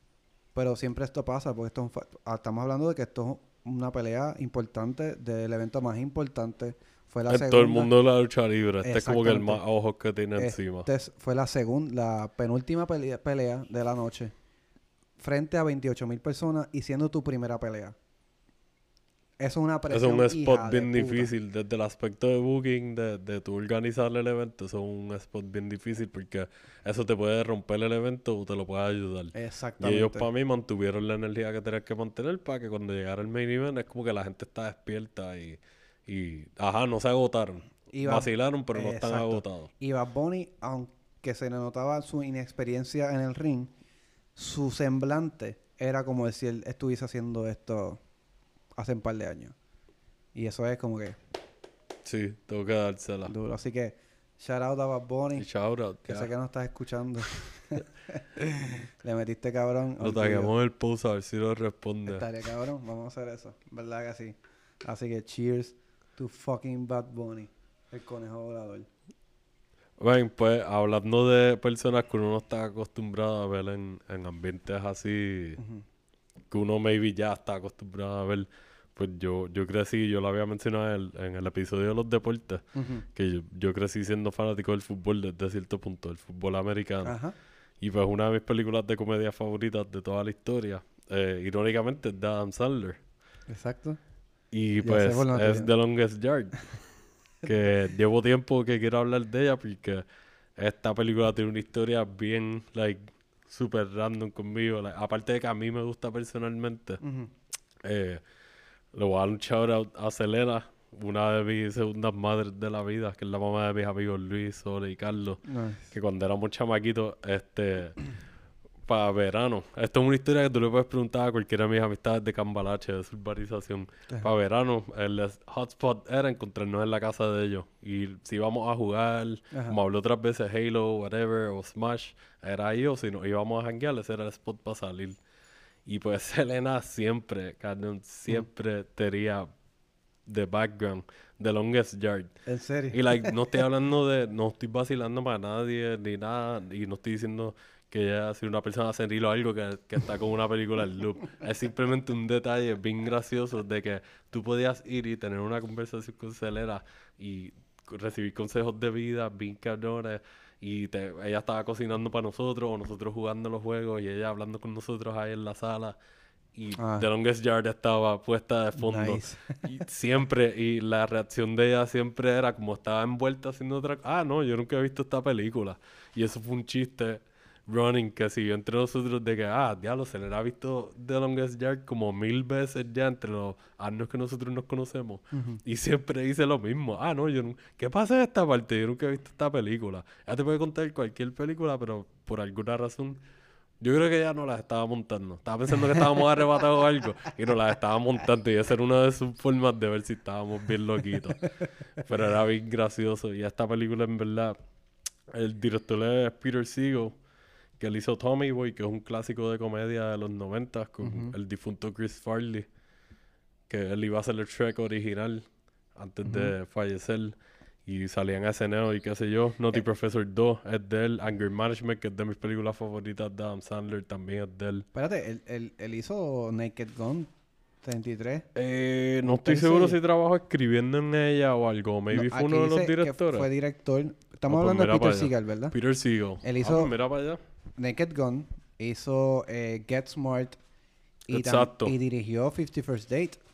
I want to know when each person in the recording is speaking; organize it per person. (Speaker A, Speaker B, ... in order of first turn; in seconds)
Speaker A: 0.5-7.9, 8.8-9.6, 10.3-14.3, 15.2-17.9, 19.4-21.3, 29.3-30.3, 37.9-43.7, 44.4-48.0, 48.8-49.5, 50.3-51.2, 53.2-55.5, 56.0-60.5, 62.1-68.9, 75.6-75.8, 82.7-83.0, 87.0-87.3, 93.5-94.0, 94.8-95.7, 107.0-107.3, 115.5-115.8, 129.5-129.8, 142.4-143.6, 166.8-167.1, 168.8-169.7, 185.3-185.6, 211.0-211.3, 216.2-216.5, 224.9-227.3, 227.8-228.5, 229.2-230.0, 232.1-235.7, 236.4-236.9, 237.8-240.6, 241.3-243.4
Speaker B: 7.3-10.9, 19.9-39.7, 52.0-53.3, 55.4-56.3, 60.0-62.2, 70.0-75.6, 76.5-87.1, 87.8-93.0, 94.5-96.7, 97.4-100.0, 100.6-107.0, 107.8-108.2, 108.9-118.0, 118.8-135.2, 135.8-139.5, 140.2-142.3, 142.9-165.9, 166.5-193.2, 193.8-204.6, 205.3-207.2, 207.8-212.7, 213.7-217.3, 217.8-224.8, 228.5-233.5, 234.5-237.4, 241.3-241.9